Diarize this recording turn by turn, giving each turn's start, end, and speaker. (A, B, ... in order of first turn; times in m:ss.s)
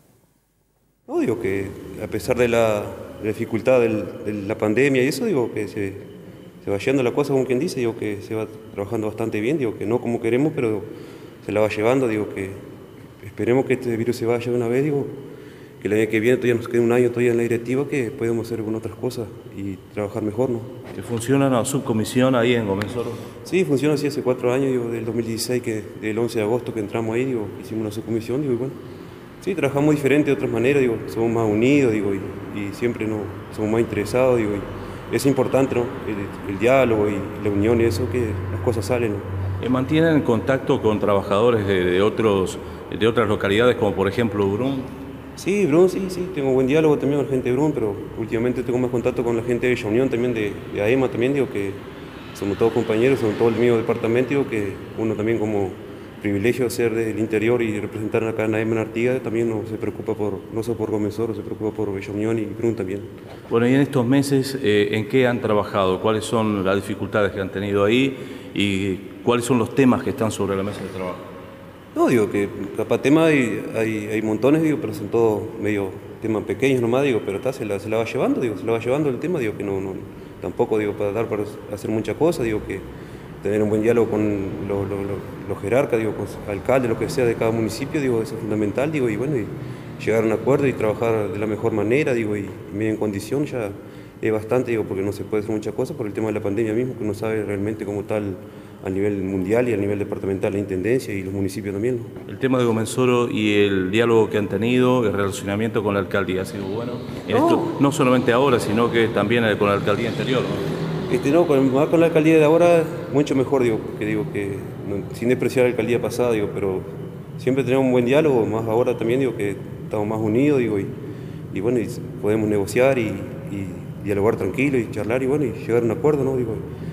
0:01.1-0:06.0 A
0:06.6-0:10.9 A
0:11.4-0:12.6 A
0:13.2-0:15.1 A
0:15.8-0:20.7 A
0:21.0-0:23.2 B
0:23.4-0:28.8 A
0:29.4-0:39.2 A
0:39.6-0:44.9 B
0:45.4-0:51.8 A
0:52.3-1:03.1 A
1:03.5-1:11.2 B
1:11.9-1:22.8 A
1:23.4-1:42.1 A
1:42.3-1:50.7 B
1:47.3-1:47.7 A
1:51.1-1:56.8 A
1:57.4-2:00.9 A
2:01.5-2:06.6 A